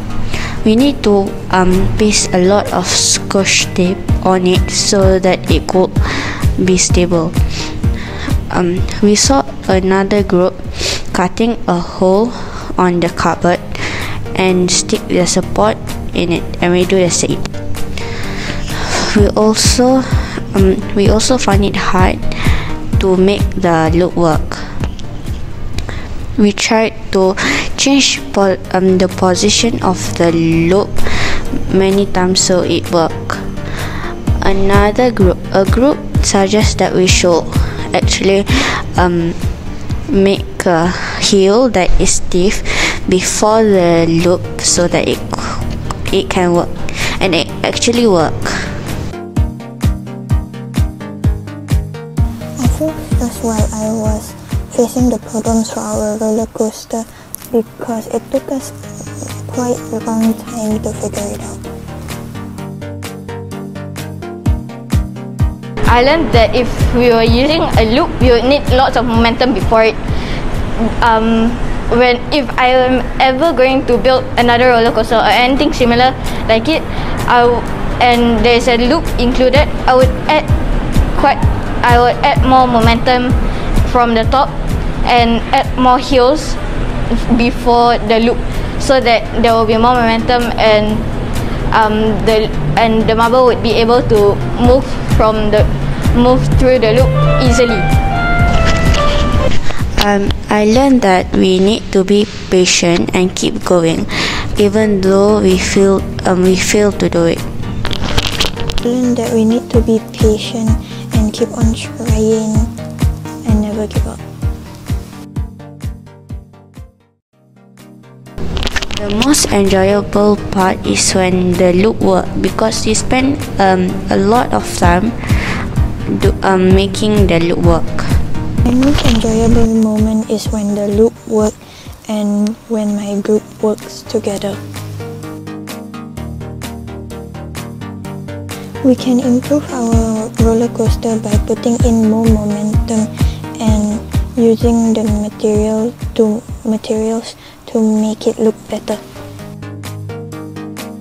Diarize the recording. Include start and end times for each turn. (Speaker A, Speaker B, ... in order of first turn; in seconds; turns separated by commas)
Speaker A: 0.3-17.5, Speaker A: 18.7-24.8, Speaker A: 26.4-39.4, Speaker A: 40.1-48.9, Speaker B: 52.6-61.6, Speaker C: 65.8-70.0, Speaker C: 70.8-80.5, Speaker C: 81.1-84.5, Speaker C: 85.0-86.6, Speaker C: 87.1-91.0, Speaker C: 91.7-97.9, Speaker A: 99.6-107.4, Speaker B: 108.8-112.7, Speaker B: 113.4-114.2, Speaker A: 118.9-128.2, Speaker B: 128.7-131.6, Speaker B: 132.1-134.6, Speaker B: 138.8-149.0